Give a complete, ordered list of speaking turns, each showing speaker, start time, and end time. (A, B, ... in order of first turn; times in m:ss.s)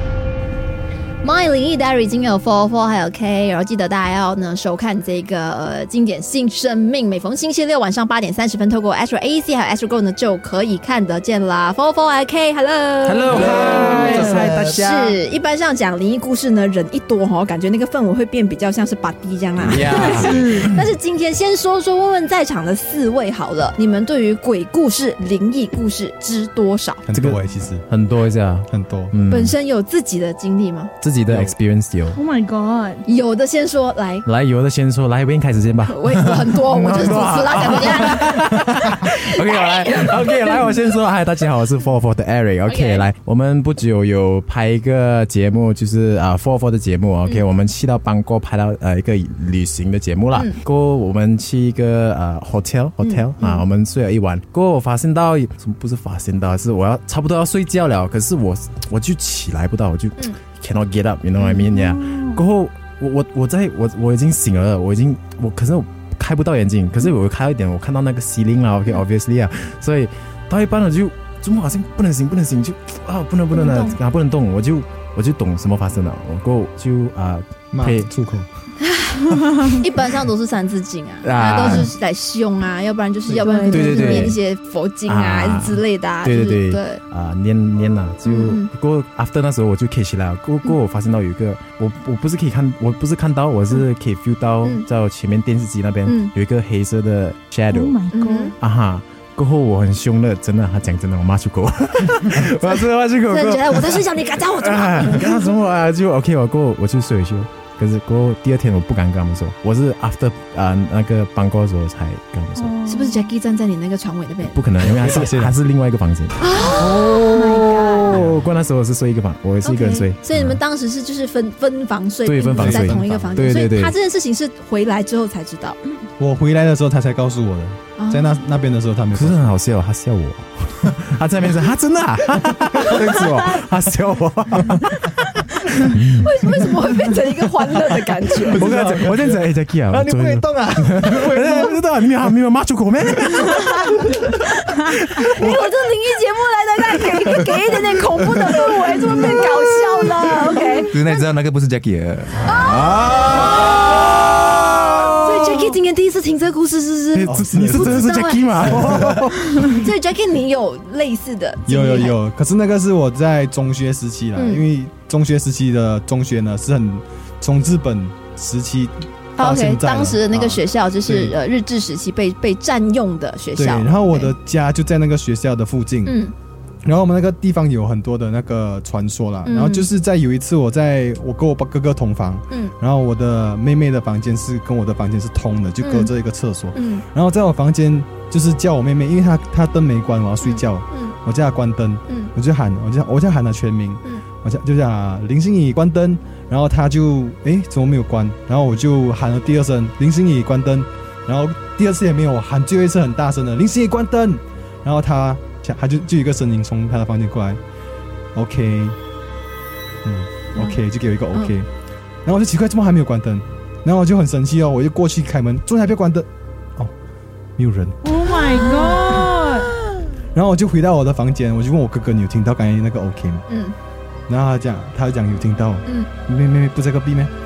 0:01.2-0:27.0 A
0:13.0-0:15.2 B
0:13.7-0:14.5 C
0:19.6-0:20.8 B
0:19.7-0:20.0 D
0:19.9-0:20.7 C
0:27.0-0:27.8 E
0:27.1-0:29.6 B
0:28.7-0:29.1 E
0:29.3-0:30.9 A
0:31.0-0:32.2 B
0:31.3-0:31.6 E
0:32.1-0:33.0 C
0:33.1-0:34.2 A
0:34.2-1:18.1 B
0:35.8-0:38.4 A
0:39.3-0:40.4 A
0:42.6-0:43.1 A
0:50.3-0:50.6 A
0:53.0-0:53.6 A
1:01.6-1:02.4 C
1:13.5-1:14.0 A
1:17.7-1:18.5 E
1:18.8-1:27.0 A
1:21.2-1:21.9 B
1:23.4-1:24.3 C
1:23.7-1:24.4 B
1:25.0-1:38.0 B
1:28.2-1:28.7 A
1:36.0-1:36.3 A
1:37.7-1:38.6 C
1:38.1-1:38.6 A
1:38.6-1:52.7 B
1:42.6-1:45.5 A
1:52.6-1:53.3 C
1:52.8-1:54.6 A
1:54.5-2:00.6 B
1:54.8-1:55.6 E
1:56.4-1:57.2 A
1:57.3-1:58.2 C
1:58.1-1:58.5 E
1:59.6-2:06.0 A
2:02.2-2:03.9 B
2:02.5-2:03.4 E
2:06.2-2:09.5 E
2:08.0-2:08.3 A
2:09.1-2:15.2 B
2:15.9-2:16.3 B
2:16.2-2:18.6 A
2:18.5-2:21.8 E
2:18.6-2:23.9 B
2:25.2-2:31.2 A
2:30.9-2:33.5 D
2:32.4-2:34.3 A
2:34.8-2:39.1 A
2:37.1-2:39.8 B
2:37.2-2:39.3 E
2:39.7-2:42.2 A
2:41.6-2:51.3 E
2:44.3-2:44.6 A
2:49.4-2:54.3 A
2:53.5-2:56.2 E
2:56.0-2:56.3 A
2:56.8-3:27.6 E
2:59.4-2:59.9 A
3:05.8-3:06.1 A
3:06.7-3:07.0 A
3:10.4-3:11.1 A
3:12.1-3:12.3 A
3:28.3-3:29.0 E
3:30.0-3:31.7 E
3:32.2-3:36.9 E
3:37.6-3:38.0 E
3:38.0-3:39.7 C
3:38.6-3:39.2 A
3:40.3-3:43.4 E
3:43.5-3:43.7 A
3:44.3-3:47.3 E